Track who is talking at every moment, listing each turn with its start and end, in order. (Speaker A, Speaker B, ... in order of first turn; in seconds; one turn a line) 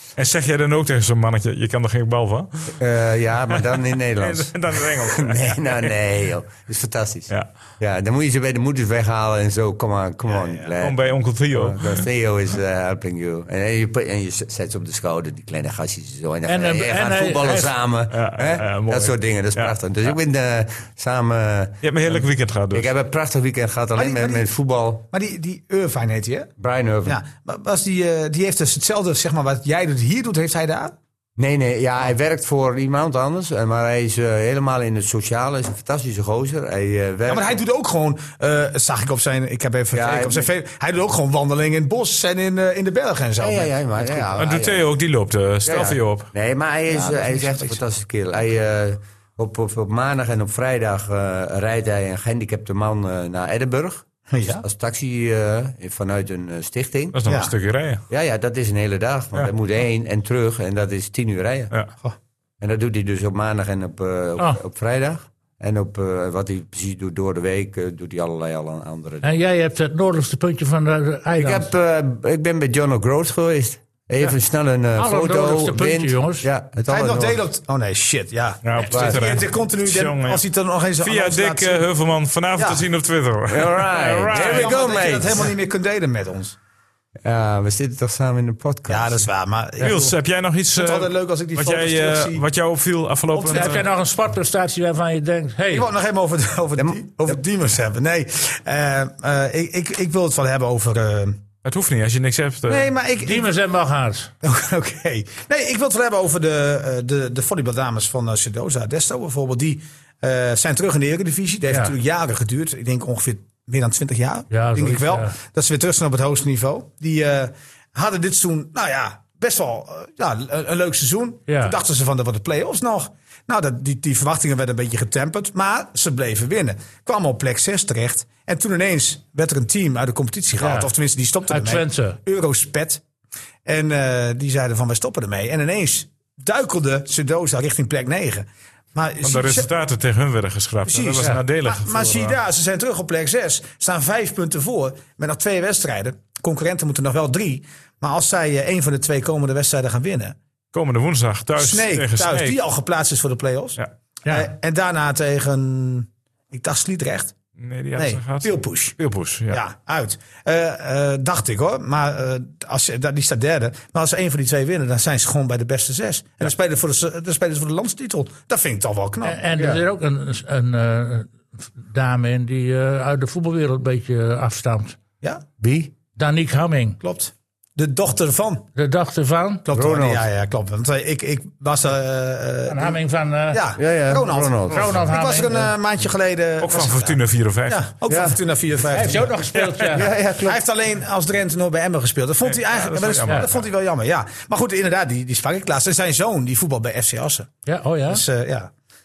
Speaker A: 0.2-2.8
Speaker B: 2.8-25.1
Speaker A: 4.2-5.9
Speaker C: 10.3-10.7
Speaker A: 10.8-12.1
Speaker D: 16.5-17.7
Speaker A: 18.1-19.8
Speaker A: 21.8-22.9
Speaker C: 23.9-24.5
Speaker C: 25.1-26.5
Speaker B: 26.6-27.2
Speaker C: 27.1-30.9
Speaker B: 31.4-37.5
Speaker C: 37.3-44.2
Speaker B: 39.9-40.5
Speaker B: 43.4-44.9
Speaker A: 44.4-46.3
Speaker C: 45.7-45.9
Speaker B: 45.7-57.2
Speaker C: 46.9-47.8
Speaker C: 54.3-54.6
Speaker A: 57.1-58.0
Speaker B: 58.1-61.7
Speaker B: 62.6-69.3
Speaker D: 69.2-71.7
Speaker B: 71.3-77.4
Speaker D: 75.0-76.5
Speaker C: 76.9-81.8
Speaker A: 78.6-80.4
Speaker B: 78.9-79.2
Speaker A: 81.0-84.7
Speaker C: 82.6-82.8
Speaker B: 83.5-85.5
Speaker C: 84.3-86.5
Speaker B: 87.2-89.3
Speaker C: 88.9-90.1
Speaker A: 89.8-93.9
Speaker C: 90.8-92.4
Speaker D: 93.3-95.9
Speaker C: 93.4-93.7
Speaker C: 95.7-101.4
Speaker B: 96.8-97.3
Speaker A: 101.6-102.9
Speaker C: 102.7-103.5
Speaker D: 103.2-104.3
Speaker C: 104.4-133.0
Speaker D: 111.7-111.9
Speaker D: 114.5-115.3
Speaker D: 121.5-121.8
Speaker D: 130.6-130.9
Speaker D: 131.5-132.2
Speaker C: 133.6-139.7
Speaker A: 139.2-142.4
Speaker C: 140.9-150.3
Speaker A: 150.7-152.6
Speaker C: 151.6-157.3
Speaker A: 157.6-159.6
Speaker C: 157.9-158.9
Speaker C: 159.5-169.4
Speaker D: 169.2-175.0
Speaker B: 169.6-169.8
Speaker B: 175.6-175.9
Speaker D: 176.2-177.0
Speaker C: 177.0-178.7
Speaker D: 178.8-179.6
Speaker C: 179.6-189.4
Speaker B: 179.7-180.3
Speaker D: 182.7-183.6
Speaker B: 183.8-184.9
Speaker D: 184.7-185.7
Speaker A: 186.6-187.8
Speaker B: 188.1-188.4
Speaker D: 188.9-190.1
Speaker A: 189.5-190.1
Speaker B: 189.9-190.6
Speaker C: 190.4-197.5
Speaker A: 192.4-193.5
Speaker D: 197.7-198.2
Speaker C: 198.1-198.7